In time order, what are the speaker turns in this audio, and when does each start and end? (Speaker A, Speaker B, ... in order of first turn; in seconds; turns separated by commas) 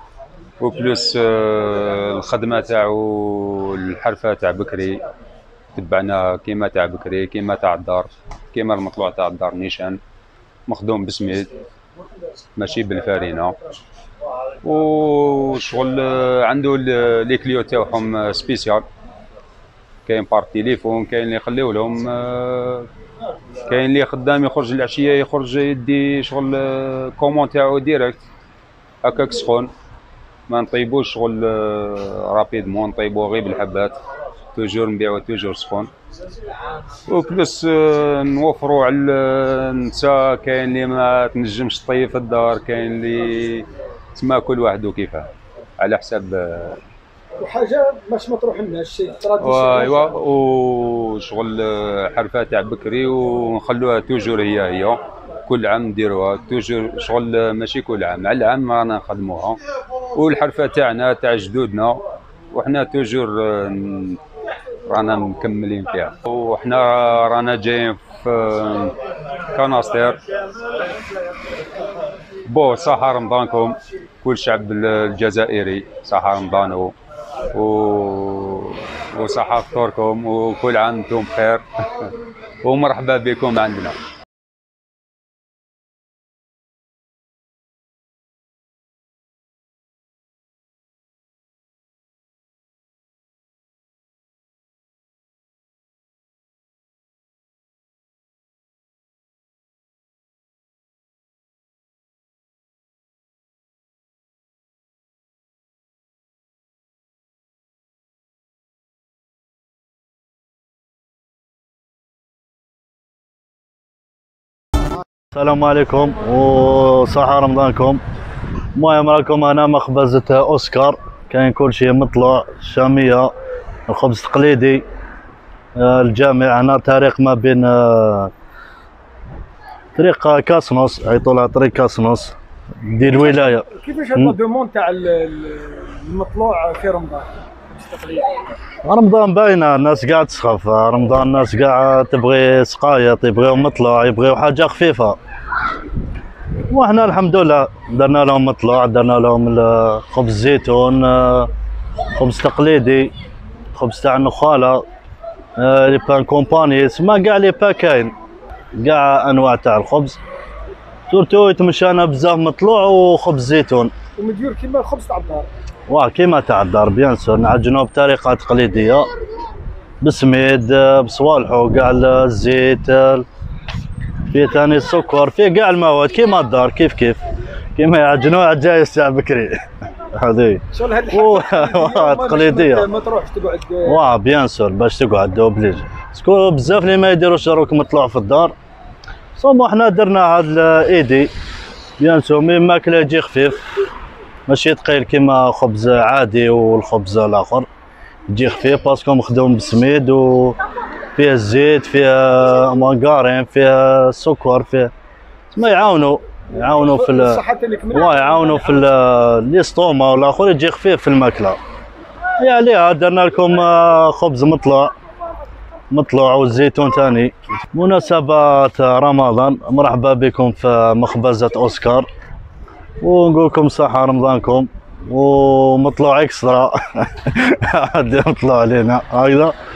Speaker A: 0.6-5.0, Speaker A: 5.7-10.0, Speaker A: 10.7-11.6, Speaker A: 12.6-13.6, Speaker A: 14.6-18.8, Speaker A: 20.1-22.9, Speaker A: 23.6-28.2, Speaker A: 29.0-29.7, Speaker A: 30.5-34.0, Speaker A: 34.5-35.9, Speaker A: 37.0-46.8, Speaker B: 47.4-50.1, Speaker A: 49.4-59.6, Speaker A: 60.1-64.2, Speaker A: 64.9-68.9, Speaker A: 69.5-70.2, Speaker A: 72.5-76.9, Speaker A: 77.5-82.1, Speaker A: 82.6-84.0, Speaker C: 115.3-118.0, Speaker C: 118.7-123.3, Speaker C: 123.9-124.8, Speaker C: 125.8-128.3, Speaker C: 129.9-134.3, Speaker B: 133.1-138.4, Speaker C: 138.8-145.2, Speaker C: 146.7-151.5, Speaker C: 152.2-153.1, Speaker C: 153.7-154.8, Speaker C: 155.6-158.1, Speaker C: 158.8-160.2, Speaker C: 161.1-163.9, Speaker B: 164.2-165.5, Speaker C: 165.9-169.1, Speaker C: 170.0-173.2, Speaker C: 174.3-177.2, Speaker C: 177.8-179.6, Speaker C: 180.2-182.9, Speaker B: 180.7-184.0, Speaker C: 183.8-188.5, Speaker C: 189.3-191.3, Speaker C: 192.0-193.7, Speaker C: 194.5-197.7, Speaker C: 198.3-200.6, Speaker C: 201.1-204.9, Speaker C: 205.5-207.4, Speaker B: 206.6-208.9, Speaker C: 207.9-211.6, Speaker C: 212.4-214.9, Speaker C: 215.9-222.1, Speaker C: 223.0-229.5